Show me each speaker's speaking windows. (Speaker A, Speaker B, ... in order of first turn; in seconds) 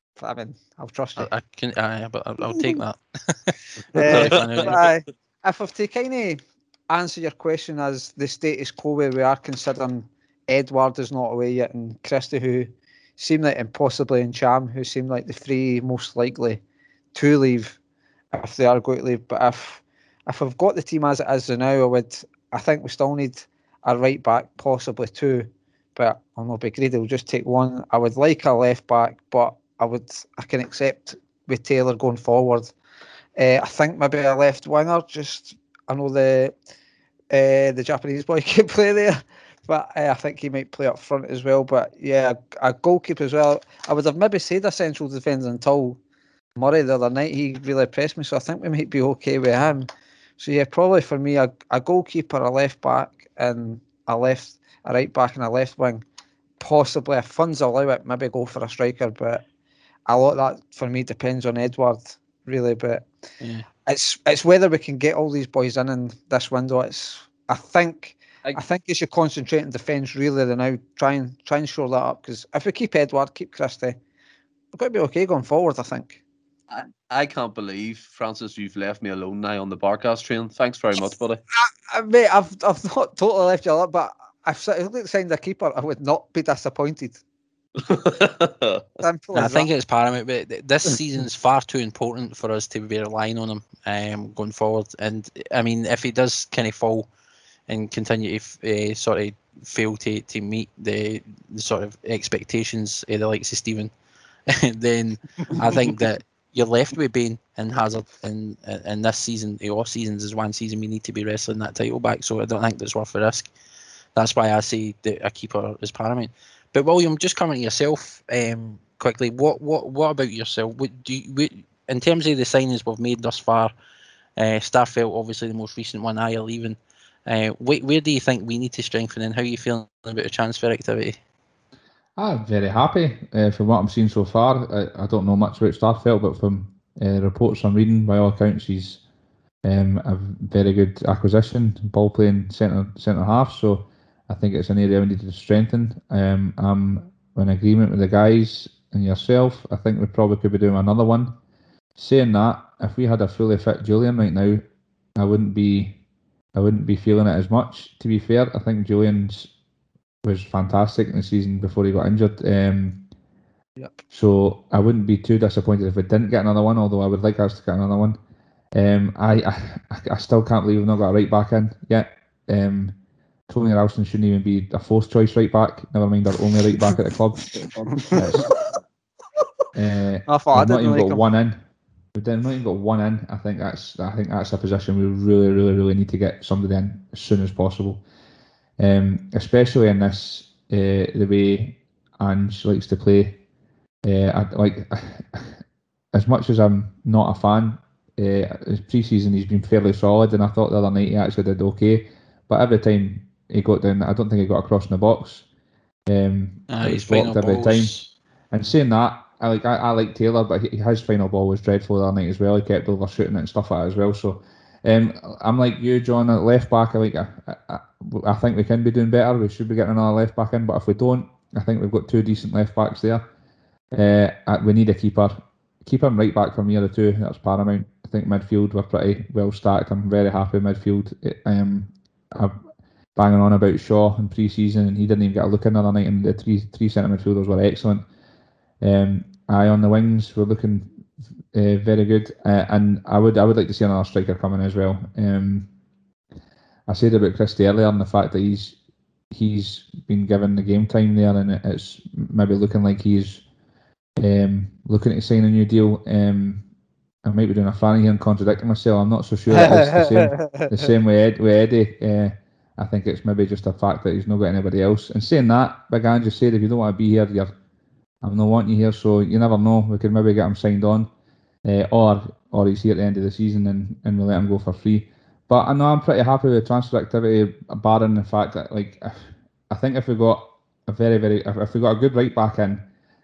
Speaker A: 0.2-1.3, 2.5-2.8, 3.9-16.6, 17.1-17.8, 18.3-32.7, 33.4-36.5, 37.3-46.0, 46.5-56.0, 56.6-59.4, 60.1-63.1, 63.9-74.0, 74.7-76.2, 81.5-87.2, 89.0-89.7, 177.6-178.5, 180.3-181.2, 259.5-260.9
Speaker B: 1.1-4.8, 63.4-63.7, 89.3-97.1, 97.7-103.9, 104.5-113.5, 114.2-123.7, 124.4-131.2, 206.7-208.1
Speaker C: 4.0-4.7, 76.7-81.4, 87.8-88.8
Speaker D: 132.2-139.0, 139.6-151.3, 151.9-154.6, 155.2-156.0, 156.5-159.5, 160.2-163.1, 164.1-168.2, 168.7-172.9, 173.5-177.6, 178.1-178.5, 179.7-181.6, 182.1-188.0, 188.8-193.4, 194.0-195.6, 196.1-205.4, 206.1-207.9, 208.5-223.2, 223.9-232.5, 233.2-238.0, 238.8-240.9, 241.5-245.7, 246.9-248.8, 249.3-253.4, 254.2-256.6, 257.2-267.5, 268.2-271.1, 271.6-282.9